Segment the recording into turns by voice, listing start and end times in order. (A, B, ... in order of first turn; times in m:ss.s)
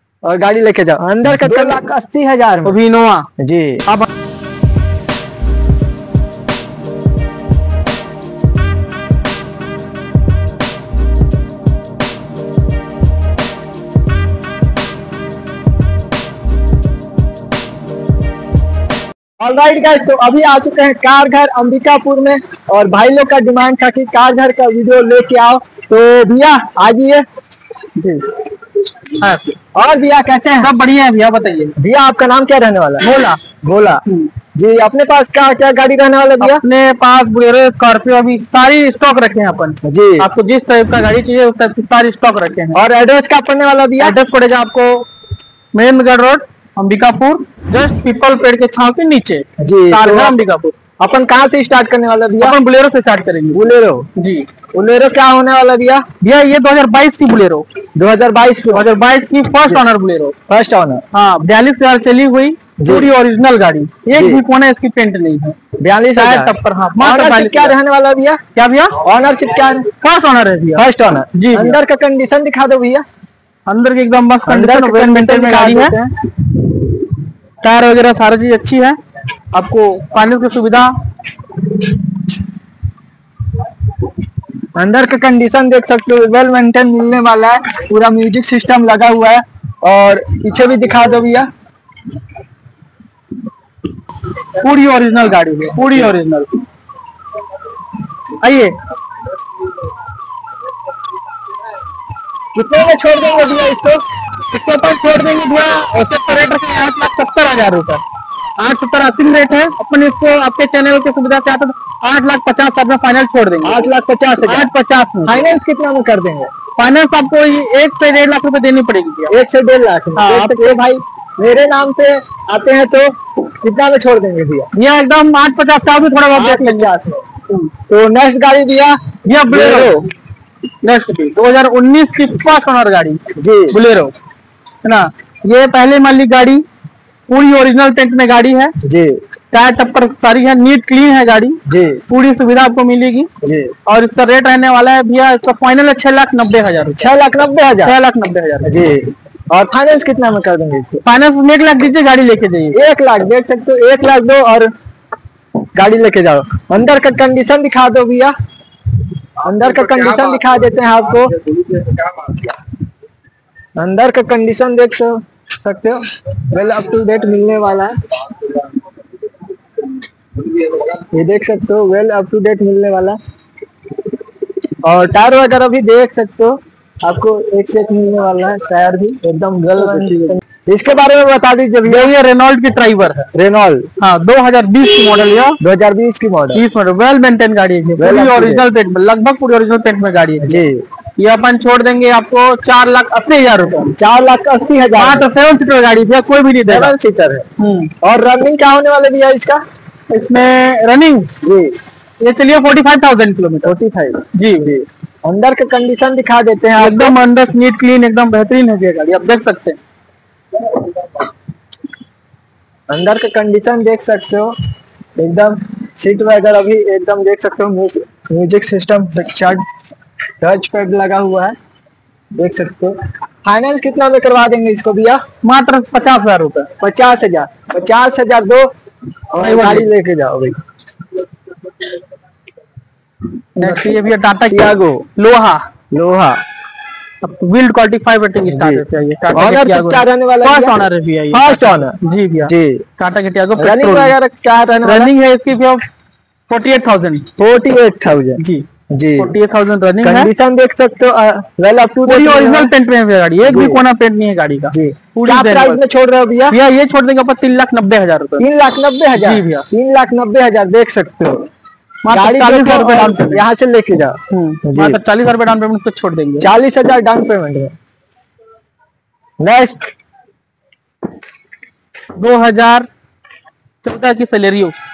0:00.2-0:02.8 A
0:01.4-0:01.8 B
0:02.6-0:03.3 B
0:03.4-0:03.8 A
0:19.4-0:27.3 A
0:28.0-0:28.4 B
0:29.2-0:29.6 B
0:29.8-0:30.7 A
0:30.6-0:31.8 B
0:31.8-0:34.0 A
0:33.0-0:33.4 B
0:34.1-0:34.3 B
0:34.5-0:36.6 A
0:36.4-0:42.8 B
0:39.8-0:40.3 A
0:42.7-0:44.2 A
0:44.0-0:45.1 B
0:45.7-0:50.8 B
0:49.6-0:50.3 A
0:51.0-0:52.6 A
0:52.4-0:54.5 B
0:53.5-0:54.1 A
0:54.7-0:56.1 A
0:56.2-0:57.7 B
0:58.0-0:58.9 A
0:58.7-1:00.4 B
1:00.5-1:01.0 A
1:01.1-1:05.6 B
1:02.8-1:03.1 A
1:04.1-1:04.4 A
1:05.8-1:08.4 A
1:06.2-1:07.8 B
1:08.6-1:09.0 B
1:09.0-1:09.9 A
1:10.0-1:11.8 B
1:10.8-1:13.0 A
1:13.7-1:16.0 B
1:14.5-1:16.1 A
1:17.6-1:19.0 B
1:19.5-1:20.9 B
1:24.8-1:31.5 A
1:34.5-1:36.6 B
1:38.4-1:38.8 B
1:42.5-1:44.0 A
1:44.4-1:48.0 B
1:48.6-1:53.8 B
1:53.6-1:54.7 A
1:54.4-1:55.5 B
1:55.2-1:56.5 A
1:56.8-1:59.4 B
1:59.3-2:04.7 A
2:00.2-2:00.8 B
2:04.7-2:07.7 B
2:06.3-2:07.2 A
2:07.9-2:10.0 A
2:09.3-2:10.0 B
2:10.8-2:13.2 B
2:13.4-2:13.8 A
2:13.7-2:14.1 B
2:14.8-2:16.6 B
2:17.3-2:18.8 B
2:18.8-2:19.2 A
2:19.5-2:23.3 B
2:21.7-2:22.0 A
2:23.4-2:23.7 A
2:23.9-2:27.1 B
2:27.0-2:28.0 A
2:27.8-2:28.8 B
2:28.6-2:31.0 A
2:31.0-2:32.8 B
2:32.7-2:34.7 A
2:35.8-2:38.3 A
2:39.4-2:42.5 A
2:43.8-2:47.9 A
2:50.7-2:53.2 A
2:54.8-3:02.1 A
2:59.8-3:00.3 B
3:01.8-3:03.3 B
3:03.3-3:03.9 A
3:04.0-3:05.6 B
3:05.6-3:06.6 A
3:06.5-3:10.6 B
3:08.0-3:08.6 A
3:10.4-3:10.8 A
3:11.2-3:14.0 B
3:14.0-3:15.3 A
3:14.9-3:17.0 B
3:16.7-3:17.5 A
3:17.6-3:17.9 B
3:18.0-3:19.6 A
3:20.1-3:21.3 B
3:21.4-3:21.7 A
3:22.2-3:23.8 B
3:23.6-3:24.2 A
3:24.3-3:24.8 B
3:25.2-3:27.2 A
3:26.8-3:29.8 B
3:32.9-3:34.5 A
3:35.2-3:39.6 A
3:40.4-3:41.6 A
3:42.4-3:45.2 A
3:45.4-3:46.7 B
3:46.8-3:48.7 A
3:49.3-3:50.6 A
3:49.4-3:49.9 B
3:53.6-3:55.7 B
3:53.6-3:55.0 A
3:55.9-3:56.4 A
3:57.2-4:04.2 B
3:58.5-4:00.8 A
4:01.3-4:02.8 A
4:03.6-4:05.1 A
4:04.8-4:05.9 B
4:06.5-4:07.3 B
4:07.4-4:08.4 A
4:08.4-4:08.6 B
4:08.9-4:09.4 A
4:09.2-4:10.3 B
4:10.0-4:12.7 A
4:12.0-4:15.8 B
4:13.4-4:13.8 A
4:14.7-4:16.6 A
4:16.5-4:18.4 B
4:18.4-4:21.4 A
4:19.2-4:19.7 B
4:22.0-4:23.4 B
4:22.1-4:25.0 A
4:24.3-4:26.5 B
4:26.4-4:27.7 A
4:29.4-4:29.8 A
4:32.2-4:32.9 B
4:33.8-4:34.8 B